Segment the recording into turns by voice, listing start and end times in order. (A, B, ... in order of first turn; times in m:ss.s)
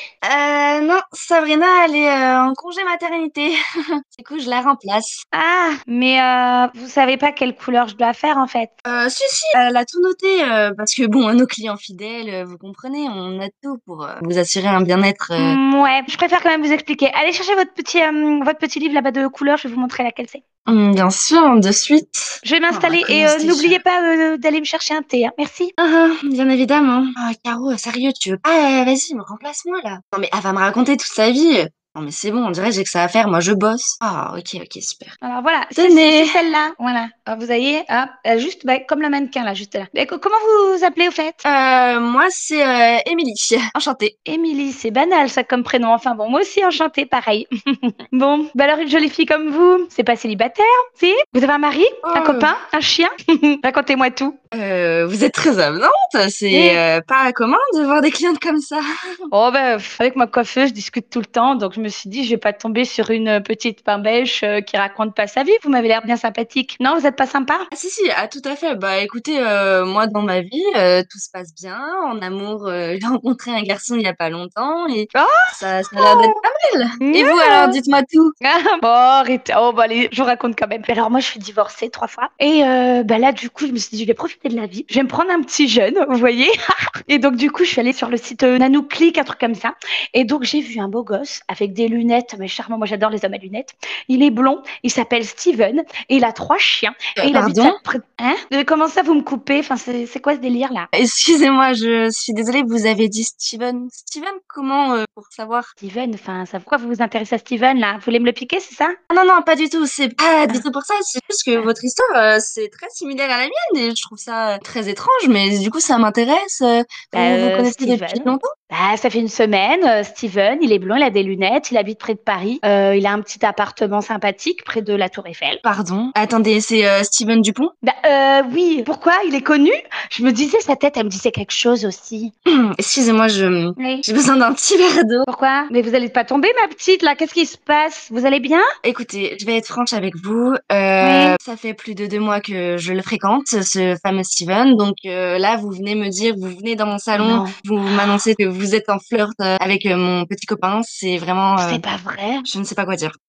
0:00.2-0:03.6 A
0:04.1-0:05.2 A
0:05.3-0:08.7 B
0:08.8-0:15.6 A
0:15.4-0:20.4 B
0:20.7-0:23.8 A
0:22.4-0:25.7 B
0:25.8-0:35.2 A
0:35.2-0:41.4 B
0:35.8-0:36.3 A
0:41.4-0:44.1 A
0:44.2-0:47.5 B
0:48.1-0:53.1 B
0:52.0-0:52.5 A
0:53.6-0:54.4 B
0:54.5-0:58.8 A
0:56.5-0:56.8 B
0:59.3-1:07.7 B
1:07.7-1:18.3 A
1:15.1-1:16.3 B
1:17.0-1:17.8 B
1:18.4-1:26.5 B
1:27.1-1:40.9 B
1:37.2-1:37.8 A
1:40.9-1:45.7 A
1:45.8-1:49.0 B
1:49.1-1:58.5 A
1:57.1-2:05.6 B
2:05.6-2:07.7 A
2:07.8-2:12.3 B
2:12.5-2:15.3 A
2:13.8-2:14.0 B
2:15.3-2:18.7 B
2:18.8-2:31.8 A
2:21.0-2:21.4 B
2:27.2-2:28.2 B
2:31.6-2:32.5 B
2:32.4-2:33.1 A